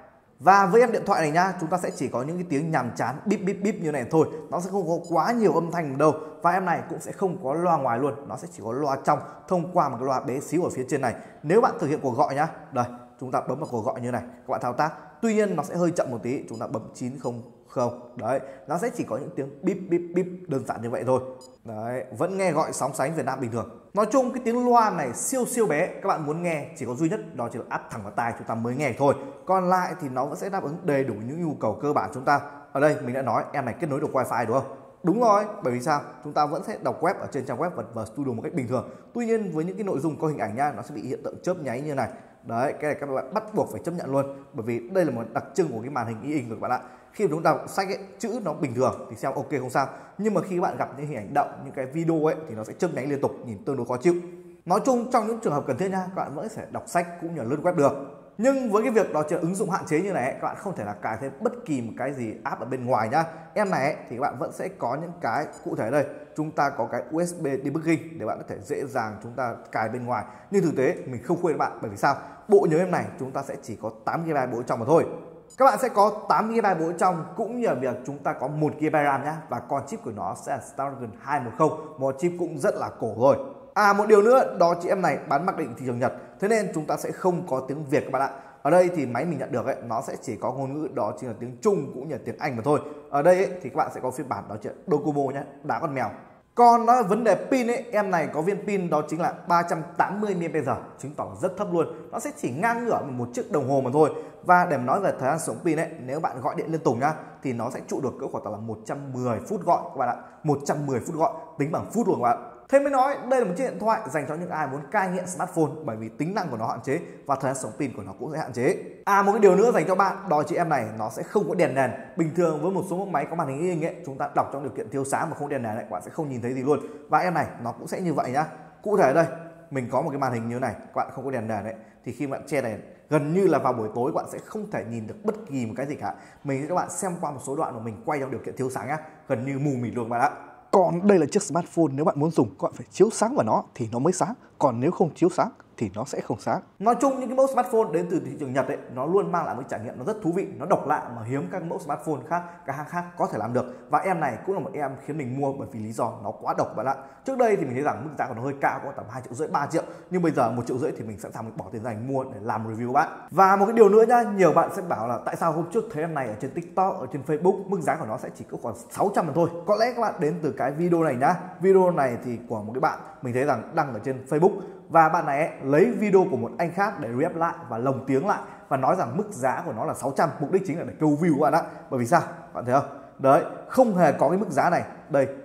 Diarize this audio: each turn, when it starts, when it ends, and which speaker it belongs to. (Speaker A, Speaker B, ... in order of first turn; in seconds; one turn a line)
Speaker A: 0.4-185.3